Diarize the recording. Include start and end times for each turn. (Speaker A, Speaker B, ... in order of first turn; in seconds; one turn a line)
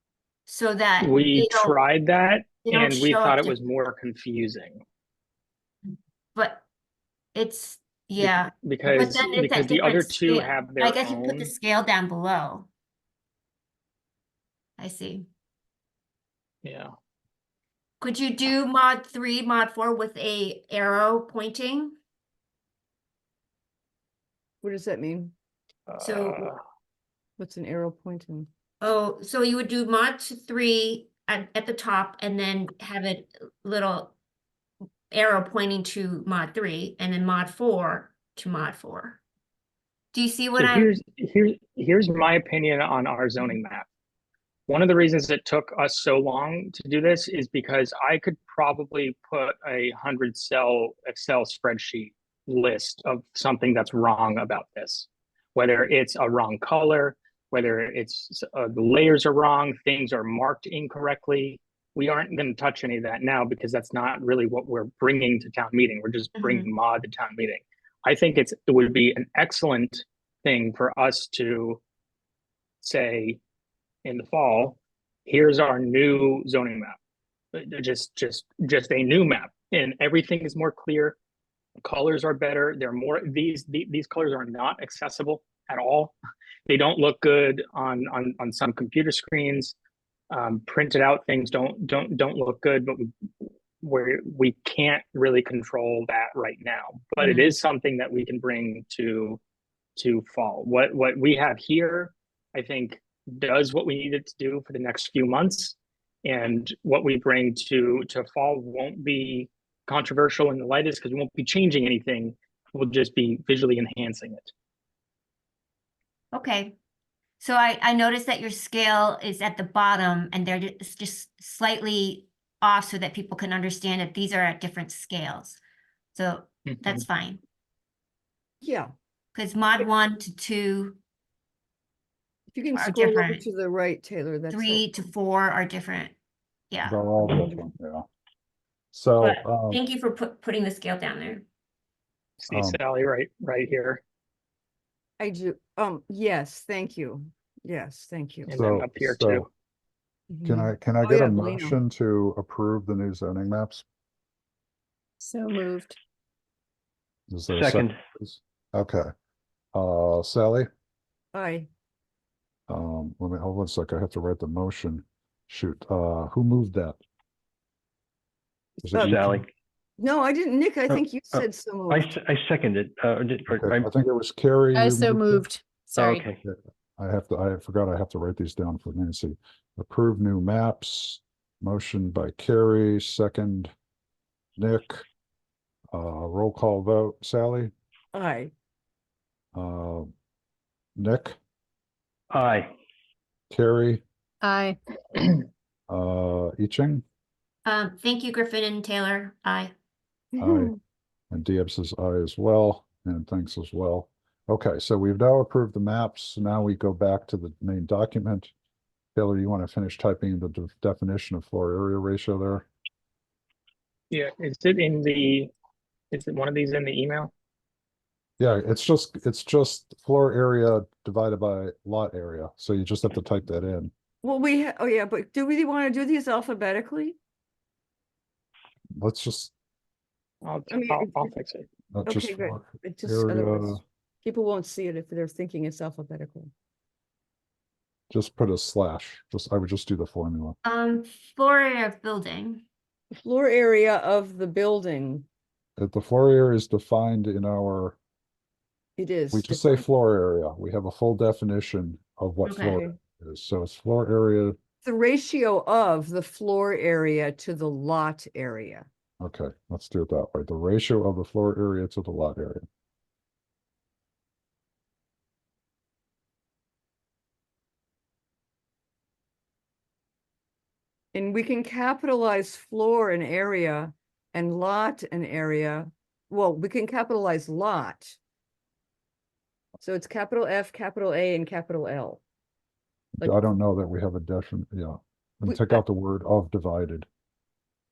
Speaker A: 0.5-1.8
Speaker B: 1.0-4.8
Speaker A: 2.6-3.5
Speaker A: 6.3-6.6
Speaker A: 7.3-12.7
Speaker B: 8.2-11.5
Speaker A: 14.8-15.3
Speaker B: 16.6-16.9
Speaker A: 18.0-21.9
Speaker C: 24.6-25.3
Speaker B: 25.9-26.6
Speaker A: 26.0-26.5
Speaker C: 27.4-28.5
Speaker A: 28.8-34.1
Speaker A: 35.1-39.2
Speaker A: 40.1-40.9
Speaker B: 40.6-43.9
Speaker B: 44.7-71.8
Speaker A: 66.4-66.7
Speaker B: 72.8-73.4
Speaker B: 74.0-77.0
Speaker B: 77.5-81.2
Speaker B: 81.8-86.1
Speaker B: 86.7-89.7
Speaker B: 90.3-99.4
Speaker A: 97.2-97.5
Speaker B: 100.0-114.5
Speaker A: 116.3-116.7
Speaker A: 117.4-125.6
Speaker A: 126.1-127.4
Speaker B: 126.7-127.0
Speaker C: 128.6-128.9
Speaker A: 129.3-131.0
Speaker C: 132.5-134.8
Speaker A: 132.7-133.4
Speaker A: 134.5-136.1
Speaker A: 136.7-137.0
Speaker D: 136.8-138.1
Speaker C: 137.2-137.6
Speaker D: 138.9-139.8
Speaker A: 139.2-141.4
Speaker B: 142.4-144.0
Speaker D: 142.5-142.8
Speaker C: 145.2-148.5
Speaker B: 148.4-149.5
Speaker D: 148.5-149.5
Speaker C: 150.3-151.8
Speaker D: 150.4-153.8
Speaker E: 155.2-155.9
Speaker D: 157.3-159.1
Speaker F: 157.5-158.0
Speaker D: 159.7-160.7
Speaker C: 161.3-161.7
Speaker D: 162.7-167.0
Speaker D: 168.8-169.5
Speaker C: 168.9-169.2
Speaker F: 169.0-169.5
Speaker C: 170.0-172.1
Speaker F: 170.9-173.9
Speaker D: 173.5-175.4
Speaker E: 174.7-176.3
Speaker F: 176.0-176.4
Speaker D: 176.0-183.7
Speaker D: 184.6-185.0
Speaker D: 185.9-187.7
Speaker C: 188.1-188.5
Speaker D: 189.5-190.1
Speaker D: 190.9-191.4
Speaker F: 192.3-192.7
Speaker D: 193.5-194.0
Speaker E: 194.4-194.8
Speaker D: 195.9-197.0
Speaker A: 197.6-199.7
Speaker C: 200.3-200.8
Speaker D: 200.4-200.7
Speaker D: 201.3-208.5
Speaker D: 209.1-212.7
Speaker B: 214.1-215.5
Speaker B: 216.1-217.3
Speaker D: 218.4-223.9
Speaker C: 224.2-227.2
Speaker D: 229.0-229.5
Speaker B: 230.4-231.7
Speaker C: 230.7-231.3
Speaker D: 231.9-233.8
Speaker C: 232.1-236.5
Speaker D: 238.1-240.6
Speaker A: 240.6-242.6
Speaker C: 243.1-245.2
Speaker D: 245.8-248.0
Speaker C: 249.0-249.8
Speaker D: 249.3-254.6
Speaker A: 252.4-252.8
Speaker C: 252.7-252.9
Speaker C: 254.8-258.9
Speaker D: 259.2-262.6
Speaker C: 271.1-278.2
Speaker C: 279.8-282.2
Speaker D: 283.2-287.1
Speaker C: 285.4-285.8